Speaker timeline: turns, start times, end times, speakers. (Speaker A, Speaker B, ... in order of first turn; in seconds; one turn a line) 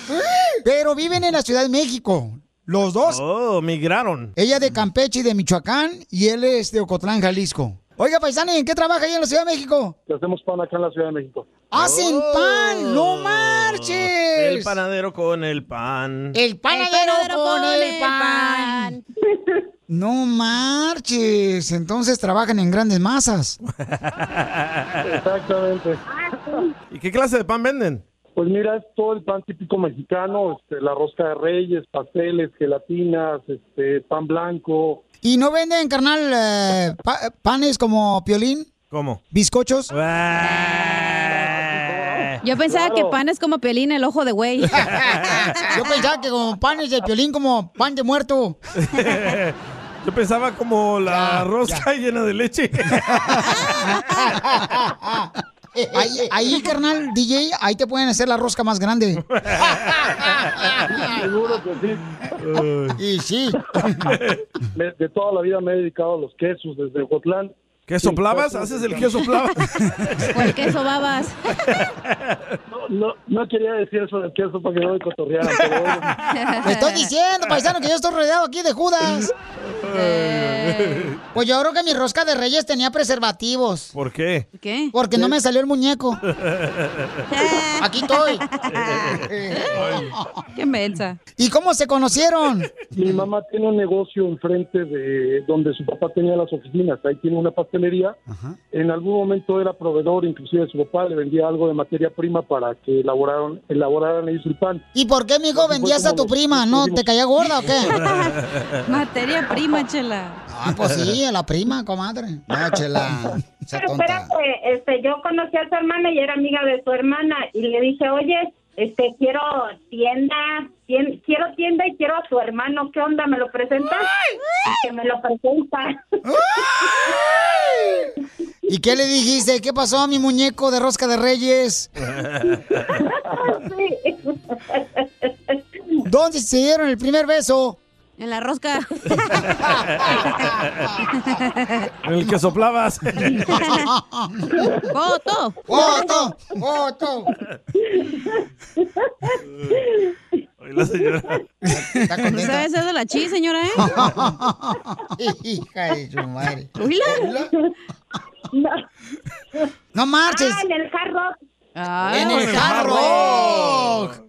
Speaker A: 0.6-3.2
Speaker B: 3.1-4.3
Speaker A: 4.4-10.0
Speaker C: 10.1-11.5
Speaker A: 11.7-14.8
Speaker B: 11.8-16.4
Speaker A: 16.3-19.0
Speaker D: 16.7-19.0
Speaker E: 19.3-19.6
Speaker A: 19.9-23.6
Speaker B: 23.7-25.1
Speaker C: 25.0-26.0
Speaker E: 26.1-26.7
Speaker B: 26.9-28.0
Speaker C: 28.4-35.0
Speaker A: 35.2-38.7
Speaker B: 38.9-39.2
Speaker A: 39.3-39.9
Speaker B: 39.9-42.3
Speaker C: 41.4-43.2
Speaker D: 42.4-45.4
Speaker B: 45.0-45.3
Speaker A: 45.2-48.6
Speaker B: 48.8-53.6
Speaker A: 51.1-51.9
Speaker A: 52.9-59.2
Speaker B: 59.3-60.3
Speaker A: 59.8-61.2
Speaker C: 61.1-62.0
Speaker B: 62.4-63.0
Speaker A: 63.0-64.2
Speaker B: 64.1-64.4
Speaker C: 64.8-69.3
Speaker B: 67.9-70.3
Speaker D: 70.3-71.4
Speaker C: 72.7-76.1
Speaker D: 76.3-77.0
Speaker A: 76.6-79.3
Speaker B: 79.0-81.2
Speaker D: 79.9-81.1
Speaker A: 81.3-83.9
Speaker B: 83.9-84.5
Speaker D: 84.6-84.9
Speaker A: 84.9-86.2
Speaker B: 86.4-87.2
Speaker D: 87.3-89.0
Speaker A: 87.8-88.5
Speaker B: 88.7-89.2
Speaker A: 89.0-90.3
Speaker B: 89.7-90.1
Speaker D: 90.6-91.2
Speaker A: 91.4-92.7
Speaker C: 93.0-98.2
Speaker A: 98.3-98.6
Speaker C: 98.7-104.8
Speaker A: 105.0-108.0
Speaker C: 105.5-107.1
Speaker D: 107.9-110.4
Speaker A: 110.5-114.3
Speaker E: 113.7-124.1
Speaker E: 124.7-126.0
Speaker A: 126.3-128.1
Speaker E: 126.7-127.2
Speaker A: 128.7-131.9
Speaker B: 132.2-132.6
Speaker E: 132.9-135.6
Speaker A: 136.0-137.8
Speaker D: 138.2-139.5
Speaker A: 139.6-140.5
Speaker D: 141.2-141.9
Speaker B: 142.1-143.5
Speaker D: 143.5-143.9
Speaker A: 143.7-144.6
Speaker D: 144.9-145.6
Speaker A: 145.7-147.3
Speaker E: 145.7-146.3
Speaker E: 147.8-150.2
Speaker B: 150.6-151.4
Speaker A: 151.7-152.7
Speaker D: 152.3-153.9
Speaker A: 153.8-157.5
Speaker D: 156.8-157.3
Speaker E: 158.5-158.8
Speaker A: 159.9-160.6
Speaker E: 160.3-161.3
Speaker D: 161.8-163.9
Speaker B: 162.1-164.2
Speaker A: 162.1-164.2